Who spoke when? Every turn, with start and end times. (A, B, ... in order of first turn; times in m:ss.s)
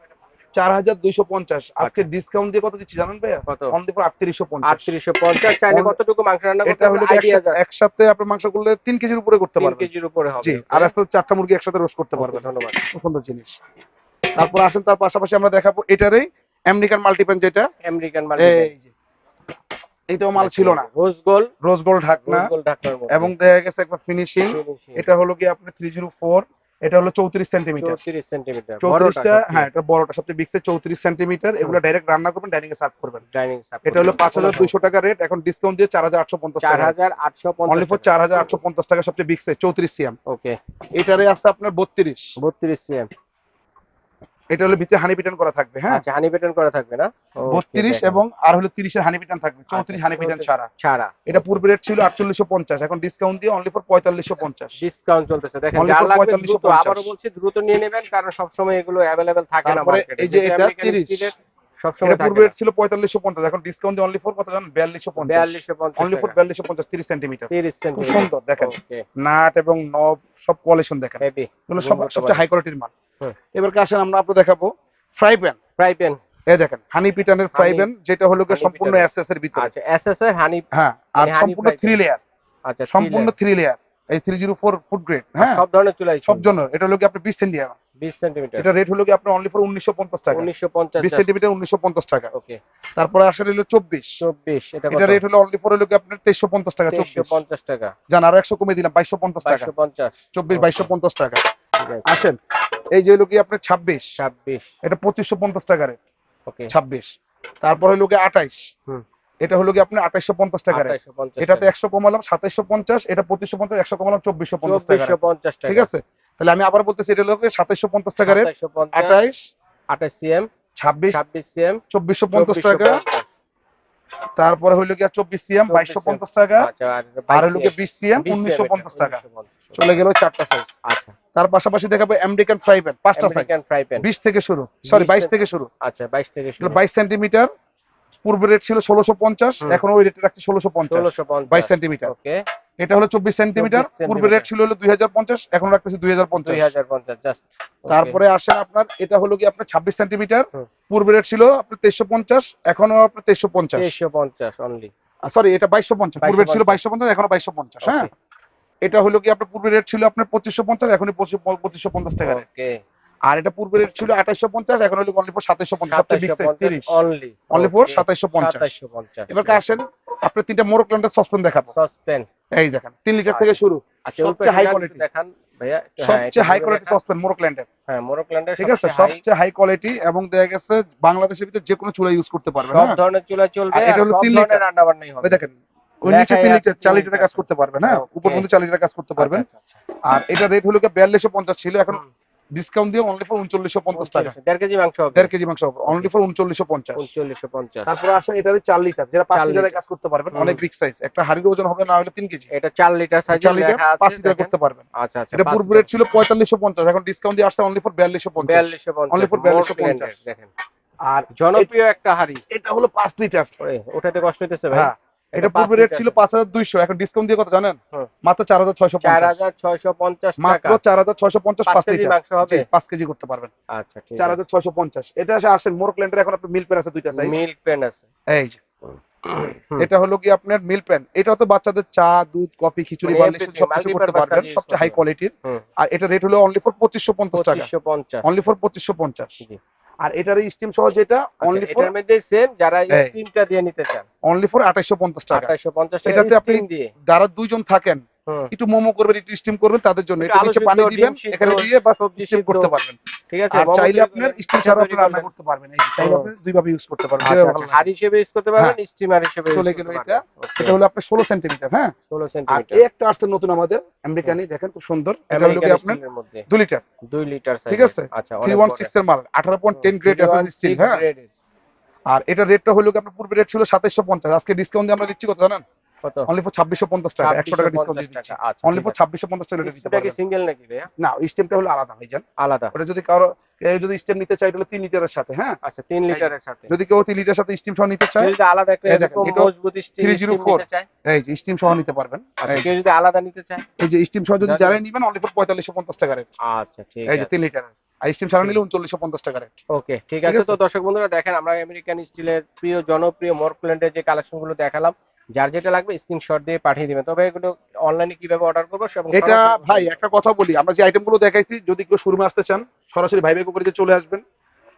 0:00.6-0:04.9 A
0:01.8-0:02.1 B
0:03.5-0:03.8 B
0:04.6-0:07.6 B
0:05.7-0:06.0 A
0:06.6-0:09.9 A
0:09.6-0:10.9 B
0:10.4-0:13.6 A
0:12.2-0:12.8 B
0:14.4-0:17.7 A
0:17.8-0:18.7 B
0:18.4-0:18.9 A
0:20.1-0:20.9 A
0:20.4-0:21.5 B
0:21.6-0:22.5 A
0:22.2-0:23.3 B
0:23.1-0:28.0 A
0:24.5-0:25.1 B
0:27.8-0:29.7 B
0:28.8-0:33.2 A
0:33.3-0:34.8 B
0:33.9-0:37.0 A
0:36.6-0:38.1 B
0:37.7-0:40.2 A
0:40.3-0:40.6 B
0:41.0-0:42.4 A
0:42.4-0:43.1 B
0:44.5-0:46.0 A
0:45.9-0:48.2 B
0:47.5-0:50.7 A
0:49.7-0:51.6 B
0:51.3-0:54.8 A
0:54.8-1:02.5 B
0:55.8-0:57.1 A
0:59.6-1:01.3 A
1:02.0-1:12.9 A
1:05.2-1:06.4 B
1:07.5-1:09.0 B
1:11.2-1:12.5 B
1:13.6-1:15.6 A
1:15.8-1:16.2 B
1:16.5-1:19.7 A
1:17.5-1:17.9 B
1:18.5-1:20.6 B
1:20.7-1:22.2 A
1:21.2-1:22.0 B
1:22.7-1:23.3 B
1:22.9-1:25.6 A
1:25.4-1:26.6 B
1:26.3-1:27.8 A
1:28.0-1:28.7 B
1:28.6-1:30.5 A
1:30.3-1:31.4 B
1:31.0-1:32.3 A
1:32.3-1:32.6 B
1:33.0-1:34.2 A
1:34.2-1:35.2 B
1:34.9-1:37.4 A
1:36.9-1:37.9 B
1:38.1-1:39.7 A
1:39.4-1:40.9 B
1:40.4-1:41.5 A
1:41.8-1:42.3 B
1:42.1-1:42.4 A
1:42.9-1:44.1 A
1:44.2-1:44.7 B
1:44.8-1:46.0 A
1:46.5-1:46.7 B
1:46.7-1:47.1 A
1:47.6-1:48.7 A
1:49.4-1:59.5 A
1:50.7-1:51.7 B
1:54.6-1:55.9 B
1:58.2-1:59.2 B
1:59.9-2:00.5 B
2:00.8-2:01.2 A
2:01.1-2:01.8 B
2:01.9-2:03.0 A
2:02.3-2:03.3 B
2:04.4-2:06.7 A
2:05.7-2:09.9 B
2:07.3-2:09.2 A
2:09.8-2:10.7 A
2:10.8-2:11.2 B
2:11.4-2:15.7 A
2:13.2-2:14.1 B
2:14.9-2:16.8 B
2:16.6-2:17.5 A
2:18.2-2:22.1 A
2:20.9-2:22.4 B
2:22.8-2:26.7 A
2:23.5-2:24.5 B
2:26.4-2:28.2 B
2:27.9-2:33.9 A
2:33.8-2:34.9 B
2:35.3-2:38.1 A
2:36.2-2:36.8 B
2:37.8-2:38.1 B
2:38.8-2:42.4 A
2:42.2-2:42.8 B
2:43.3-2:47.0 A
2:45.9-2:49.7 B
2:47.5-2:48.7 A
2:49.3-2:51.7 A
2:51.7-2:52.3 B
2:52.5-2:55.0 A
2:53.3-2:53.5 B
2:54.1-2:57.0 B
2:56.0-2:57.7 A
2:57.9-2:59.2 B
2:58.6-3:03.0 A
3:02.6-3:05.4 B
3:03.7-3:04.6 A
3:05.2-3:09.5 A
3:06.1-3:08.5 B
3:09.2-3:09.8 B
3:10.1-3:12.0 A
3:12.6-3:14.4 A
3:14.0-3:15.3 B
3:15.1-3:17.1 A
3:17.0-3:17.9 B
3:17.9-3:22.5 A
3:19.3-3:19.8 B
3:20.3-3:20.6 B
3:22.5-3:25.9 B
3:23.3-3:30.2 A
3:28.4-3:30.5 B
3:31.1-3:31.7 A
3:31.3-3:32.4 B
3:32.5-3:33.5 A
3:33.6-3:36.2 B
3:34.7-3:39.4 A
3:39.0-3:40.8 B
3:40.4-3:43.5 A
3:41.7-3:42.7 B
3:43.7-3:44.4 B
3:44.2-3:47.4 A
3:47.1-3:48.0 B
3:48.3-3:48.6 A
3:49.8-3:57.7 A
3:53.0-3:55.6 B
3:57.3-3:58.4 B
3:58.2-3:59.4 A
4:00.0-4:01.9 A
4:01.4-4:04.1 B
4:04.2-4:05.5 A
4:05.3-4:06.9 B
4:06.0-4:13.0 A
4:08.3-4:08.5 B
4:10.2-4:12.7 B
4:13.3-4:15.3 B
4:13.5-4:17.9 A
4:16.0-4:16.3 B
4:17.2-4:20.8 B
4:19.5-4:21.9 A
4:22.1-4:22.8 B
4:22.5-4:26.8 A
4:25.3-4:26.4 B
4:27.1-4:28.9 B
4:27.7-4:31.0 A
4:29.8-4:31.3 B
4:32.1-4:35.6 A
4:36.0-4:36.3 B
4:36.3-4:40.2 A
4:37.2-4:39.0 B
4:39.6-4:40.9 B
4:41.0-4:45.6 A
4:42.4-4:42.7 B
4:45.6-4:46.7 B
4:46.1-4:48.3 A
4:48.2-4:50.9 B
4:48.9-4:52.7 A
4:52.4-4:53.6 B
4:53.8-4:56.3 A
4:54.4-4:54.8 B
4:56.4-4:57.3 B
4:57.1-4:59.6 A
4:59.7-5:10.0 B
5:00.2-5:00.6 A
5:09.1-5:14.2 A